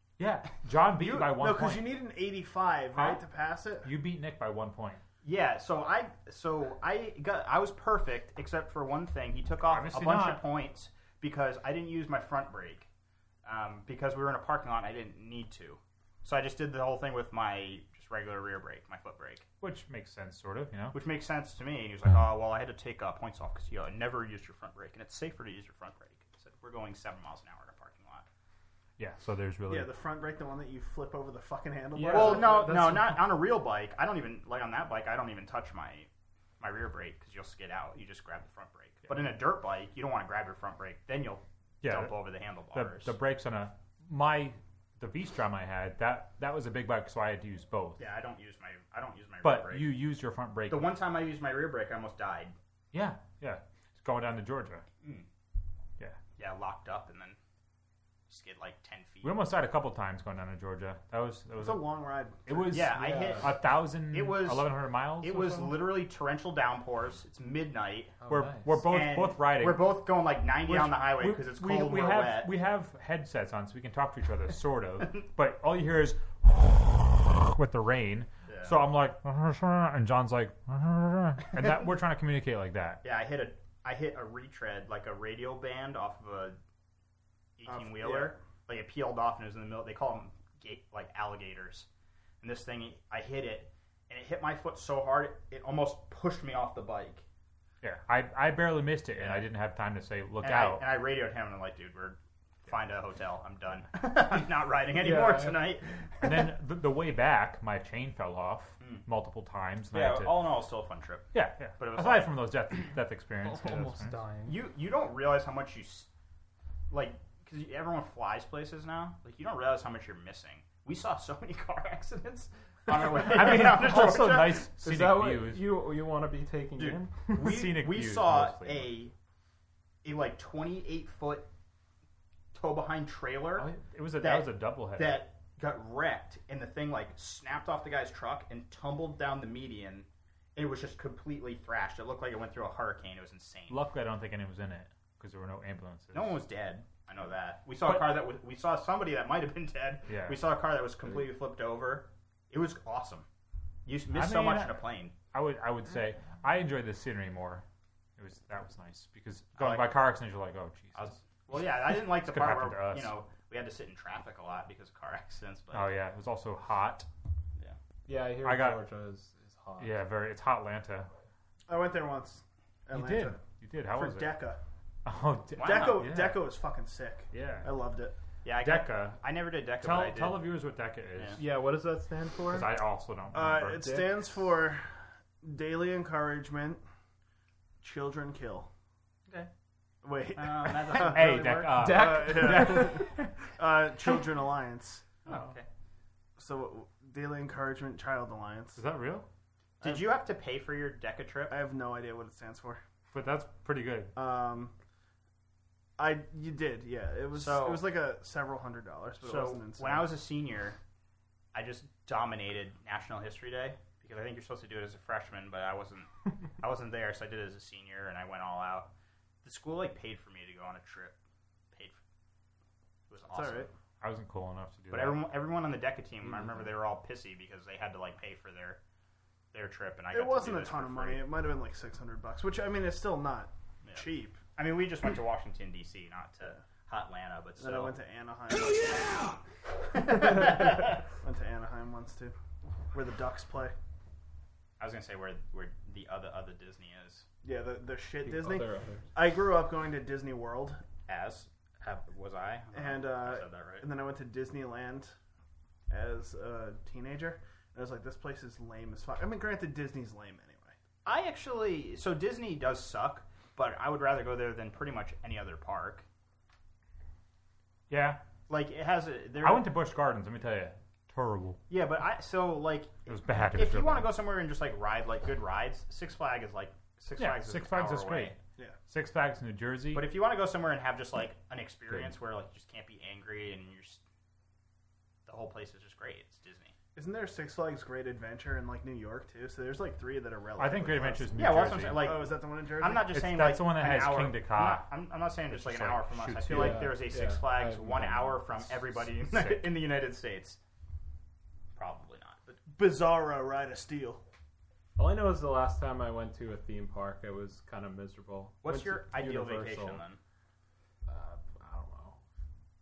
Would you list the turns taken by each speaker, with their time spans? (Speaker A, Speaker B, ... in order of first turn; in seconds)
Speaker A: 0.2-1.9, 2.9-3.2, 3.8-5.0, 9.7-10.4, 19.6-20.9, 29.0-29.9, 41.8-48.0, 49.4-51.0, 52.9-54.8, 59.2-61.9, 62.5-65.8, 68.3-70.0, 70.6-83.0, 97.8-100.8, 106.2-110.4, 111.3-114.2, 122.9-125.7, 127.3-128.9, 133.6-135.2, 143.7-146.4, 147.8-148.2, 150.1-150.4, 154.1-157.6, 158.2-161.2, 161.9-163.1, 165.7-167.1, 168.4-168.8, 169.8-171.1, 172.9-174.3, 175.0-176.5, 177.3-177.7, 178.6-179.2, 179.8-181.6, 182.4-183.9, 190.9-193.3, 198.8-199.2, 203.1-204.1, 224.0-225.3, 267.9-268.2, 269.4-271.6, 273.1-274.1, 277.2-278.3, 278.9-280.1, 290.6-292.2, 293.1-294.9, 295.5-297.0, 299.1-299.7
Speaker B: 1.0-3.9, 29.7-32.7, 61.6-63.1, 87.7-88.4, 171.7-173.4, 173.9-174.6, 175.6-178.2, 183.3-184.9, 185.4-186.8, 187.8-188.7, 190.0-195.1, 196.4-198.8, 199.8-200.1, 201.5-202.8, 204.2-204.7, 206.0-210.1, 223.3-223.7, 230.1-234.4, 237.6-239.2, 240.1-240.6, 241.2-242.3, 242.9-243.7, 247.4-250.8, 252.7-255.1, 255.9-260.8, 286.9-293.1, 302.7-304.2
Speaker C: 5.2-12.9, 13.4-19.4, 20.9-28.2, 32.1-36.1, 36.6-43.1, 48.0-50.0, 50.7-52.5, 56.4-57.4, 58.3-59.3, 62.7-68.2, 68.8-72.5, 78.5-78.9, 83.0-86.6, 87.6-91.9, 92.4-97.2, 99.1-99.5, 100.4-106.5, 109.9-112.3, 114.4-116.1, 116.9-124.7, 126.8-129.1, 130.0-131.5, 132.5-143.8, 146.1-153.2, 153.8-155.1, 159.6-160.0, 160.9-165.9, 175.6-176.1, 178.4-180.5, 181.2-181.4, 190.3-191.8, 195.2-195.7, 199.8-201.6, 207.3-207.9, 209.2-210.8, 211.5-218.9, 219.4-221.2, 221.7-222.0, 223.1-223.7, 224.9-228.8, 229.5-231.2, 233.8-237.9, 239.9-241.0, 244.8-247.2, 251.1-253.9, 261.0-266.1, 268.5-269.7, 271.7-278.4, 279.9-284.0, 285.2-286.7, 291.3-300.6, 301.8-302.6, 308.6-310.2
Speaker D: 31.9-33.2, 68.2-68.7, 105.0-105.6, 113.4-114.6, 124.8-127.6, 168.1-170.0, 181.4-182.7, 183.8-184.1, 191.6-193.1, 248.2-249.1, 296.5-298.4, 304.9-310.0, 311.1-312.2